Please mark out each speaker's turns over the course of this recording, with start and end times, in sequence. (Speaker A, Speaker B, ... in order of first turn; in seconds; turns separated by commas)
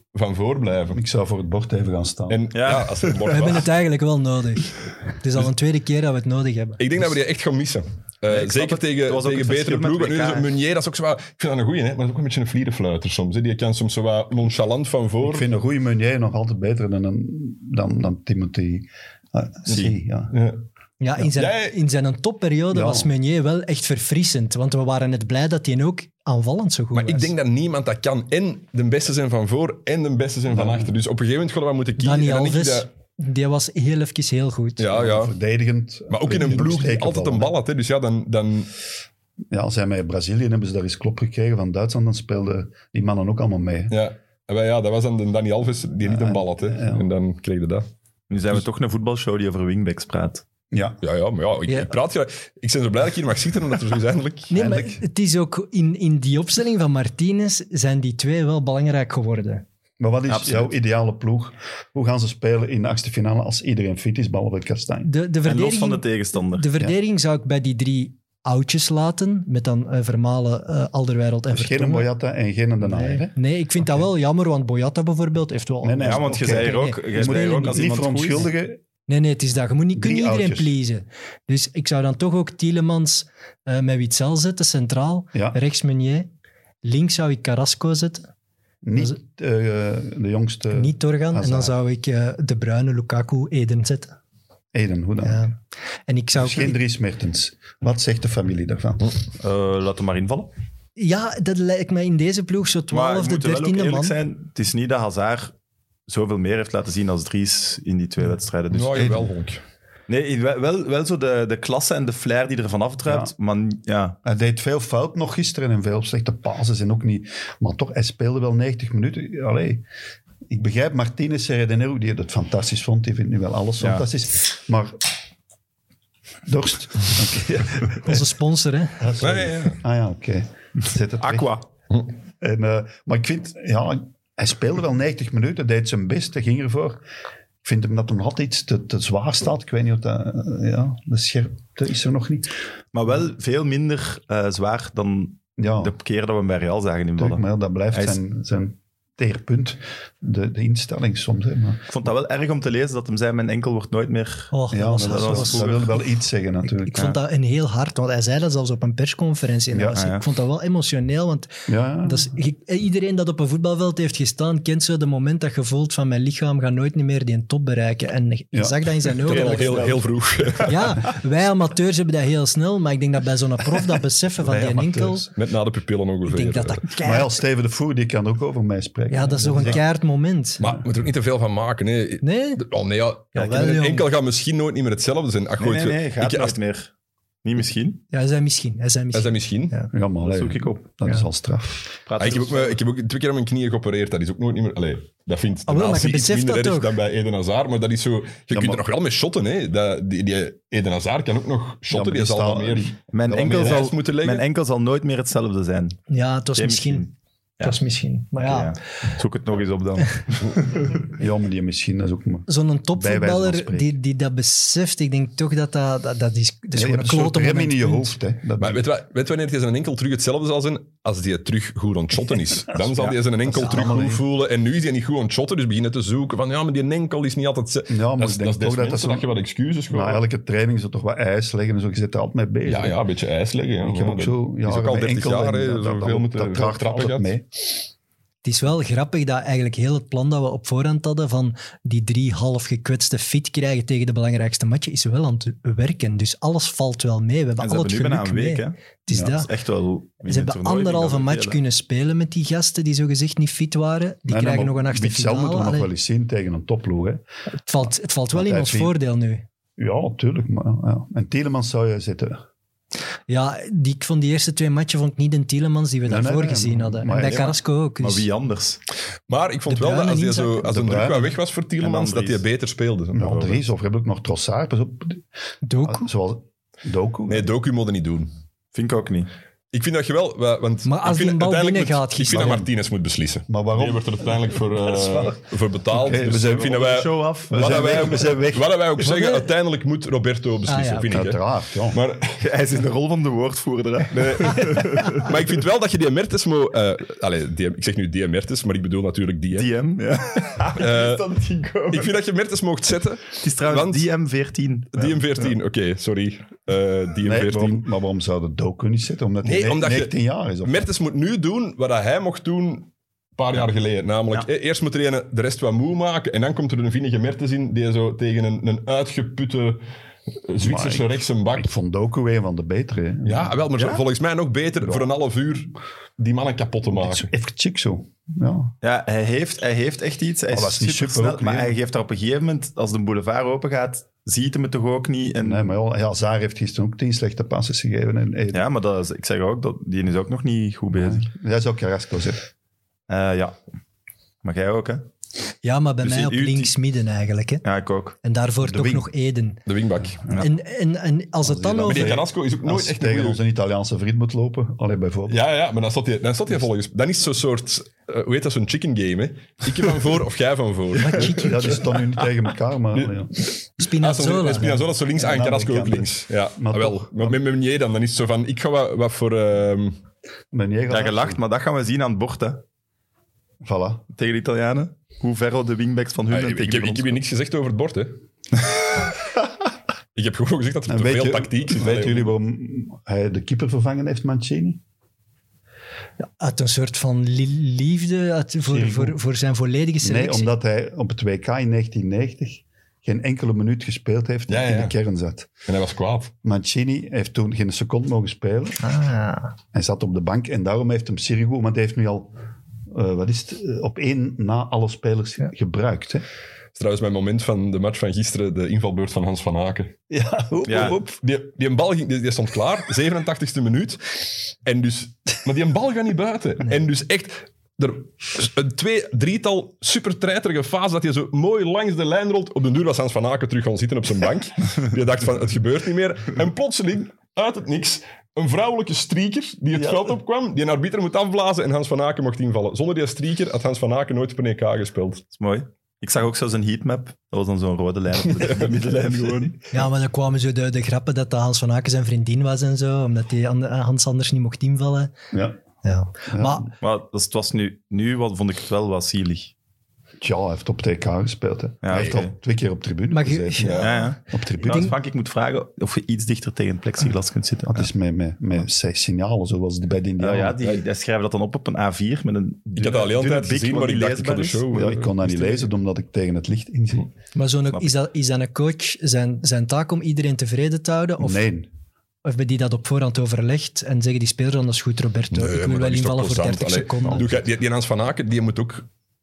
Speaker A: 0.1-1.0, Speaker B: 0.9-2.4, Speaker A: 2.3-3.7, Speaker C: 2.5-3.5, Speaker D: 3.3-6.8, Speaker A: 6.8-15.5, Speaker C: 8.3-10.5, Speaker B: 15.2-20.3, Speaker A: 19.7-20.6, Speaker D: 21.0-27.3, Speaker A: 21.2-21.7, Speaker B: 22.7-23.1, Speaker A: 26.9-32.9, Speaker B: 30.5-31.0, Speaker D: 32.0-34.9, Speaker A: 34.8-35.3, Speaker B: 34.9-37.5, Speaker A: 36.1-38.7, Speaker B: 39.5-44.0, Speaker A: 43.9-47.9, Speaker B: 46.0-47.1, Speaker C: 48.3-50.4, Speaker B: 50.7-51.0, Speaker A: 51.0-54.5, Speaker D: 54.5-59.6, Speaker B: 54.5-55.0, Speaker B: 60.0-65.1, Speaker C: 60.3-60.7, Speaker D: 65.0-72.1, Speaker C: 65.4-66.7, Speaker B: 71.5-74.1, Speaker D: 72.8-77.8, Speaker B: 75.8-78.8, Speaker C: 76.0-78.5, Speaker D: 79.1-86.3, Speaker B: 79.9-80.7, Speaker D: 86.8-88.3, Speaker B: 88.8-91.8, Speaker D: 90.7-94.1, Speaker B: 94.7-95.4, Speaker D: 95.2-96.8, Speaker B: 96.3-99.2, Speaker C: 99.4-100.5, Speaker D: 101.0-104.2, Speaker C: 102.9-105.5, Speaker C: 106.1-109.3, Speaker A: 108.7-109.6, Speaker C: 110.1-114.2, Speaker B: 113.1-113.3, Speaker B: 114.2-119.8, Speaker B: 120.5-125.1, Speaker C: 123.8-124.1, Speaker B: 126.5-128.3, Speaker D: 128.0-129.1, Speaker B: 129.0-131.5, Speaker A: 129.2-129.8, Speaker C: 131.2-131.7, Speaker B: 132.4-137.0, Speaker B: 137.6-142.5, Speaker C: 142.9-148.2, Speaker B: 145.6-145.9, Speaker B: 147.2-151.9, Speaker C: 151.9-156.0, Speaker D: 154.5-155.8, Speaker B: 154.7-157.1, Speaker D: 156.7-161.5, Speaker B: 159.7-160.0, Speaker C: 160.0-160.2, Speaker B: 161.7-162.3, Speaker D: 162.0-169.9, Speaker B: 168.5-168.9, Speaker A: 169.2-171.0, Speaker C: 169.3-170.7, Speaker D: 170.7-175.3, Speaker B: 174.4-175.2, Speaker A: 175.3-176.8, Speaker D: 176.3-177.4, Speaker B: 177.0-179.8, Speaker D: 179.1-180.6, Speaker A: 180.6-186.6, Speaker D: 182.2-182.6, Speaker D: 183.3-184.1, Speaker C: 185.6-186.9, Speaker C: 187.4-188.1, Speaker D: 188.1-189.9, Speaker A: 189.1-189.8, Speaker B: 189.9-191.9, Speaker C: 190.2-190.9, Speaker C: 192.1-192.8, Speaker A: 192.2-204.4, Speaker D: 195.7-196.9, Speaker B: 198.5-198.8, Speaker B: 201.9-203.9, Speaker C: 203.1-206.0, Speaker D: 206.1-207.1, Speaker C: 206.5-207.8, Speaker D: 207.6-208.8, Speaker C: 208.4-210.9, Speaker B: 211.1-214.0, Speaker D: 212.5-218.2, Speaker B: 216.7-218.9, Speaker A: 218.6-230.2, Speaker B: 222.7-224.2, Speaker D: 223.5-223.9, Speaker B: 227.9-229.3, Speaker B: 229.9-233.0, Speaker A: 232.7-237.3, Speaker B: 233.8-237.5, Speaker D: 238.4-249.5, Speaker C: 247.6-251.6, Speaker B: 249.1-249.5, Speaker D: 250.2-255.9, Speaker B: 254.3-257.2, Speaker D: 257.7-259.4, Speaker B: 258.3-259.0, Speaker B: 259.8-262.4, Speaker D: 263.3-268.3, Speaker B: 266.1-267.6, Speaker C: 268.0-268.8, Speaker A: 269.3-273.6, Speaker D: 269.7-270.8, Speaker B: 270.7-271.4, Speaker C: 271.8-272.4, Speaker B: 273.1-275.2, Speaker D: 275.6-276.1, Speaker B: 275.8-277.5, Speaker A: 277.3-278.3, Speaker C: 278.7-279.3, Speaker A: 279.7-292.4, Speaker D: 280.9-282.7, Speaker B: 282.3-282.7, Speaker B: 283.5-285.3, Speaker B: 285.9-286.8, Speaker C: 286.3-288.4, Speaker B: 287.5-288.9, Speaker D: 289.0-289.5, Speaker D: 290.7-291.2, Speaker B: 291.1-292.0, Speaker C: 292.4-295.3, Speaker A: 294.1-299.7, Speaker C: 299.5-302.1, Speaker A: 300.7-301.3, Speaker A: 301.9-304.1, Speaker C: 303.4-305.5, Speaker A: 304.9-307.9, Speaker B: 307.2-310.9, Speaker A: 309.4-319.8, Speaker A: 320.5-321.7, Speaker B: 320.6-323.6, Speaker A: 323.2-327.3, Speaker C: 323.8-324.0, Speaker B: 324.8-325.1, Speaker B: 326.9-328.8, Speaker C: 328.8-335.7, Speaker B: 330.5-331.8, Speaker B: 335.4-338.7, Speaker C: 338.5-341.3, Speaker B: 340.9-342.5, Speaker C: 343.1-343.6, Speaker C: 344.4-345.1, Speaker D: 345.6-347.6, Speaker C: 346.0-346.7, Speaker C: 347.6-348.2, Speaker D: 348.2-349.6, Speaker B: 348.6-349.1, Speaker A: 349.7-350.2, Speaker D: 350.3-352.2, Speaker B: 351.4-355.4, Speaker A: 351.9-353.4, Speaker A: 355.3-361.8, Speaker D: 361.0-361.8, Speaker B: 361.1-363.4, Speaker D: 363.8-364.9, Speaker A: 363.8-370.0, Speaker B: 365.1-367.4, Speaker B: 370.5-371.4, Speaker C: 370.9-372.6, Speaker B: 373.6-374.1, Speaker C: 374.1-377.2, Speaker A: 376.3-378.2, Speaker A: 380.1-382.3, Speaker B: 380.9-384.8, Speaker D: 386.2-390.5, Speaker B: 388.7-389.2, Speaker B: 390.0-395.5, Speaker A: 394.5-394.9, Speaker A: 395.7-396.3, Speaker B: 396.4-398.8, Speaker D: 398.8-399.5, Speaker B: 399.7-402.3, Speaker B: 402.9-406.2, Speaker A: 406.8-409.9, Speaker B: 410.1-411.2, Speaker C: 410.7-411.0, Speaker A: 410.8-435.2, Speaker C: 435.3-439.7, Speaker A: 438.3-439.2, Speaker D: 439.7-445.1, Speaker B: 445.3-445.6, Speaker D: 445.8-446.7, Speaker B: 446.3-446.7, Speaker C: 446.8-449.5, Speaker B: 450.2-454.9, Speaker C: 451.8-452.3, Speaker D: 453.1-454.1, Speaker A: 453.6-454.0, Speaker C: 453.8-457.9, Speaker D: 454.7-454.9, Speaker B: 457.7-460.6, Speaker C: 460.2-464.7, Speaker A: 462.8-465.7, Speaker B: 464.7-467.1, Speaker D: 467.4-471.5, Speaker B: 471.2-471.7, Speaker D: 472.2-477.3, Speaker A: 475.3-478.9, Speaker B: 477.0-477.3